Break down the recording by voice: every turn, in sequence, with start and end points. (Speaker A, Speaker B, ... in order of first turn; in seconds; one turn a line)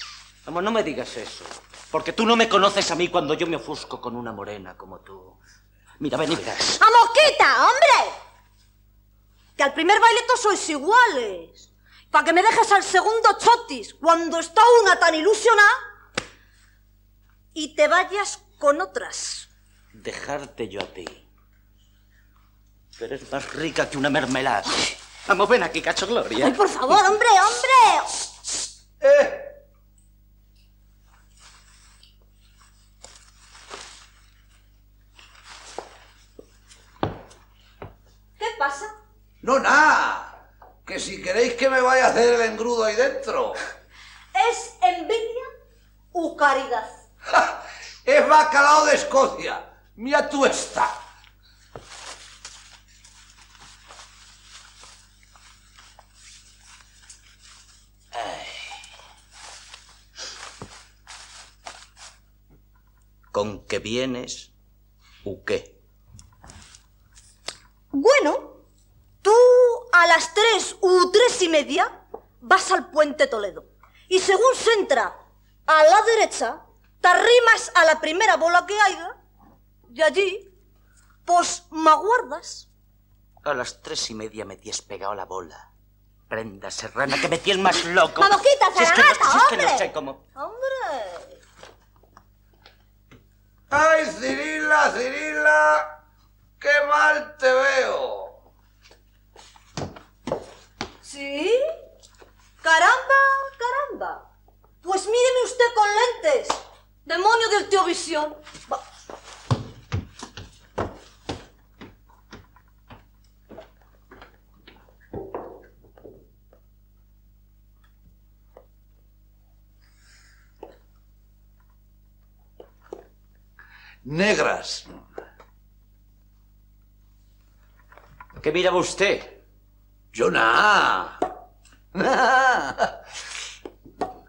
Speaker A: 0.4-5.4
Speaker A: 6.0-6.8
Speaker B: 6.8-8.1
Speaker B: 9.6-15.8
Speaker B: 17.5-19.5
Speaker A: 19.9-21.2
Speaker A: 23.0-26.6
Speaker B: 26.4-28.1
Speaker C: 29.0-29.4
Speaker B: 38.4-38.9
Speaker C: 39.4-43.6
Speaker B: 44.3-45.5
Speaker B: 46.1-47.0
Speaker C: 47.3-50.9
Speaker A: 63.3-64.5
Speaker A: 65.2-65.7
Speaker B: 67.9-68.5
Speaker B: 69.2-71.9
Speaker B: 72.4-75.2
Speaker B: 75.7-79.1
Speaker B: 79.9-80.5
Speaker B: 81.2-82.7
Speaker A: 83.4-85.6
Speaker A: 86.3-90.2
Speaker B: 88.2-89.8
Speaker B: 90.3-91.3
Speaker C: 93.7-95.9
Speaker C: 96.6-98.3
Speaker B: 101.0-101.6
Speaker B: 102.6-104.2
Speaker B: 104.8-108.8
Speaker C: 124.0-124.9
Speaker A: 128.4-129.3
Speaker C: 130.1-131.2
Speaker C: 131.9-132.9